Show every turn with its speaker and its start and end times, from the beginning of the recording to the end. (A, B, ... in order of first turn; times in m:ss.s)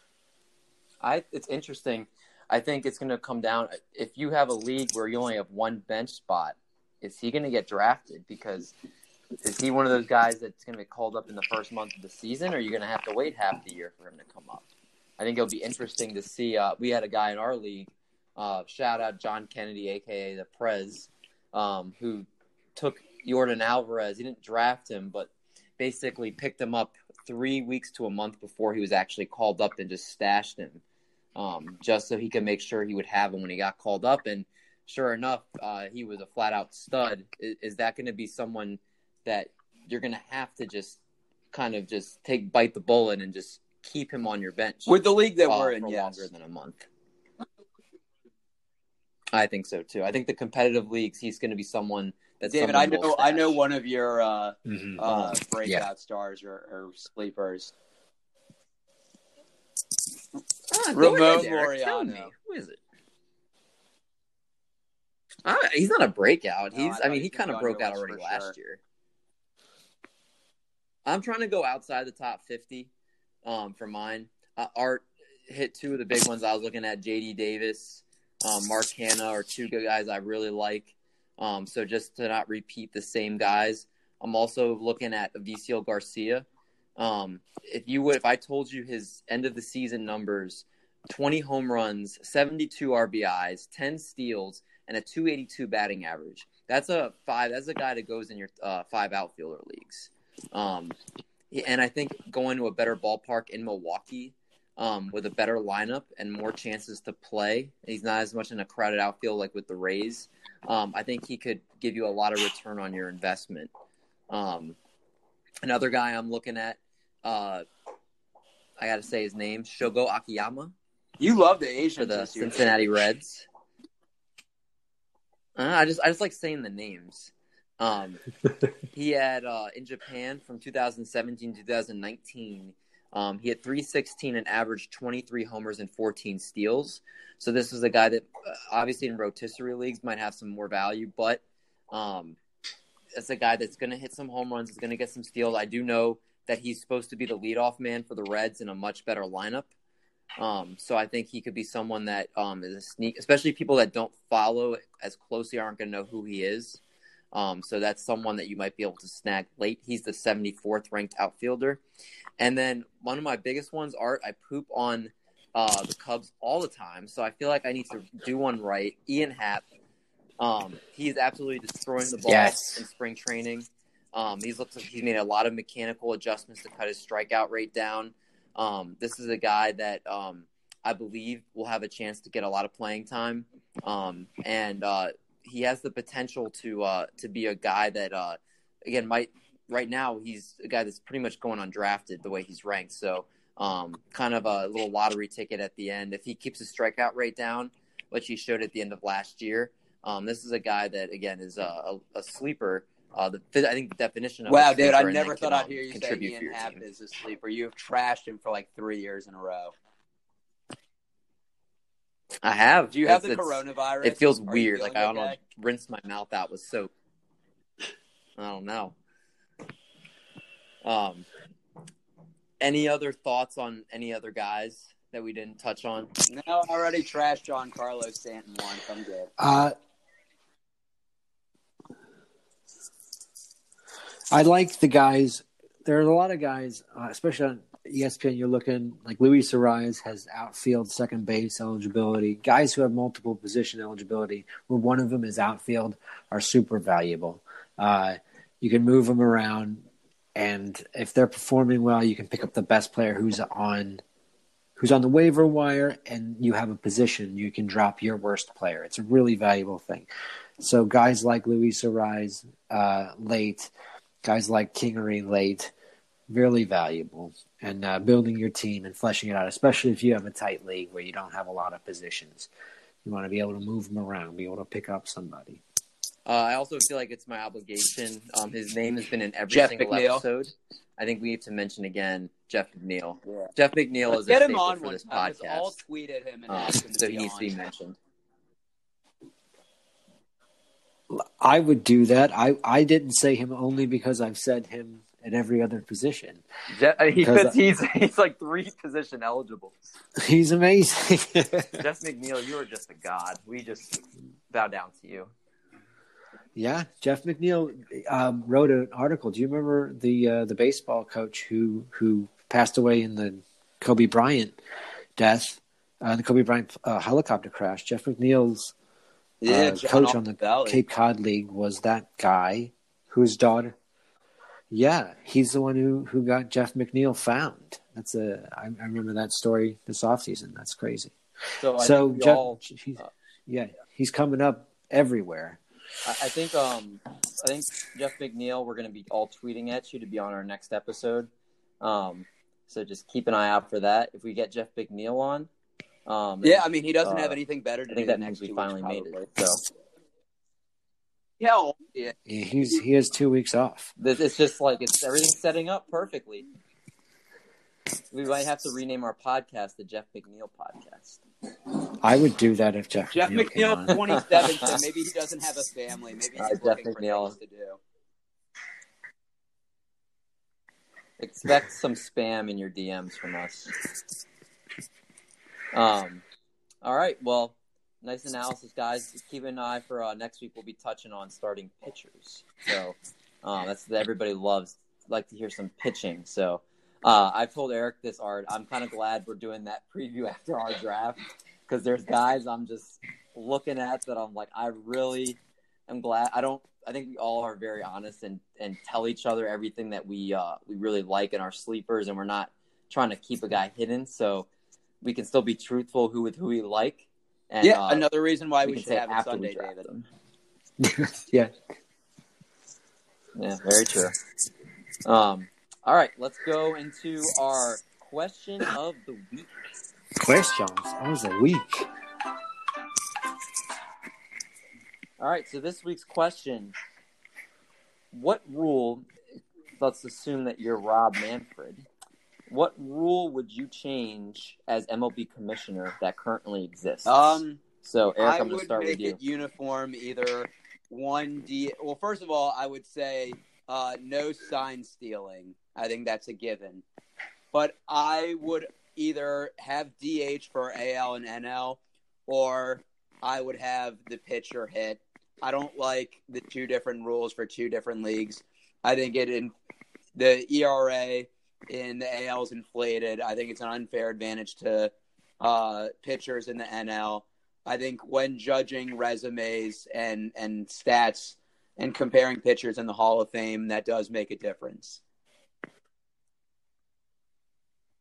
0:01.0-0:08.7 A
0:09.4-0:14.6 A
0:15.2-0:30.8 A
0:31.4-0:41.0 A
0:41.5-0:46.8 A
0:44.9-0:46.3 B
0:49.3-0:53.6 A
0:52.5-0:57.7 B
0:54.6-0:55.0 C
0:55.0-0:55.4 A
1:00.7-1:02.8 A
1:00.9-1:02.3 B
1:05.4-1:08.8 A
1:06.7-1:08.5 B
1:11.0-1:12.9 A
1:13.4-1:26.4 A
1:27.0-1:41.0 A
1:41.5-1:53.7 A
1:54.3-1:54.8 A
1:55.6-1:57.6 A
1:58.8-2:00.7 A
2:01.2-2:02.9 B
2:02.0-2:03.5 A
2:05.6-2:08.2 A
2:08.9-2:22.4 A
2:23.1-2:29.7 A
2:30.4-2:36.8 A
2:37.3-2:41.8 A
2:42.4-2:49.6 A
2:50.4-3:26.8 A
2:52.3-2:52.8 C
3:24.5-3:29.7 B
3:32.4-3:36.9 A
3:32.9-3:35.4 B
3:38.4-3:38.9 A
3:40.8-3:41.3 A
3:42.6-3:46.1 A
3:46.3-3:49.3 B
3:49.4-3:49.7 C
3:54.3-4:14.0 C
4:14.8-4:23.7 C
4:24.2-4:25.7 C
4:26.3-4:32.5 C
4:33.0-4:35.6 C
4:36.2-4:45.8 A
4:39.5-4:40.2 B
4:44.1-4:47.6 B
4:46.5-4:48.0 A
4:51.1-4:56.4 C
4:56.7-4:59.8 A
4:57.2-4:57.6 C
5:00.2-5:01.8 C
5:01.8-5:05.3 A
5:06.5-5:14.6 C
5:15.2-5:18.7 C
5:19.4-5:20.8 B
5:19.5-5:23.7 C
5:24.7-5:31.2 C
5:31.6-5:33.1 A
5:31.8-5:35.6 C
5:36.0-5:41.3 A
5:41.8-5:45.5 A
5:46.0-5:49.6 A
5:46.4-5:49.3 B
5:51.4-5:52.1 B
5:52.2-5:53.9 C
5:54.0-5:56.4 A
5:58.1-6:01.2 A
6:02.0-6:04.0 C
6:03.1-6:07.8 B
6:03.9-6:04.8 A
6:06.4-6:07.3 A
6:11.2-6:13.7 A
6:15.7-6:16.2 A
6:16.8-6:44.5 A
6:45.0-6:48.1 A
6:47.6-6:49.8 B
6:48.6-6:50.0 A
6:50.8-6:51.5 C
6:53.4-6:54.1 A
6:55.0-6:59.5 A
7:00.2-7:01.9 C
7:05.2-7:06.7 A
7:08.1-7:09.1 A
7:09.8-7:11.8 A
7:12.5-7:19.2 A
7:17.0-7:17.6 B
7:18.2-7:26.8 B
7:27.5-7:39.5 B
7:40.1-7:55.0 B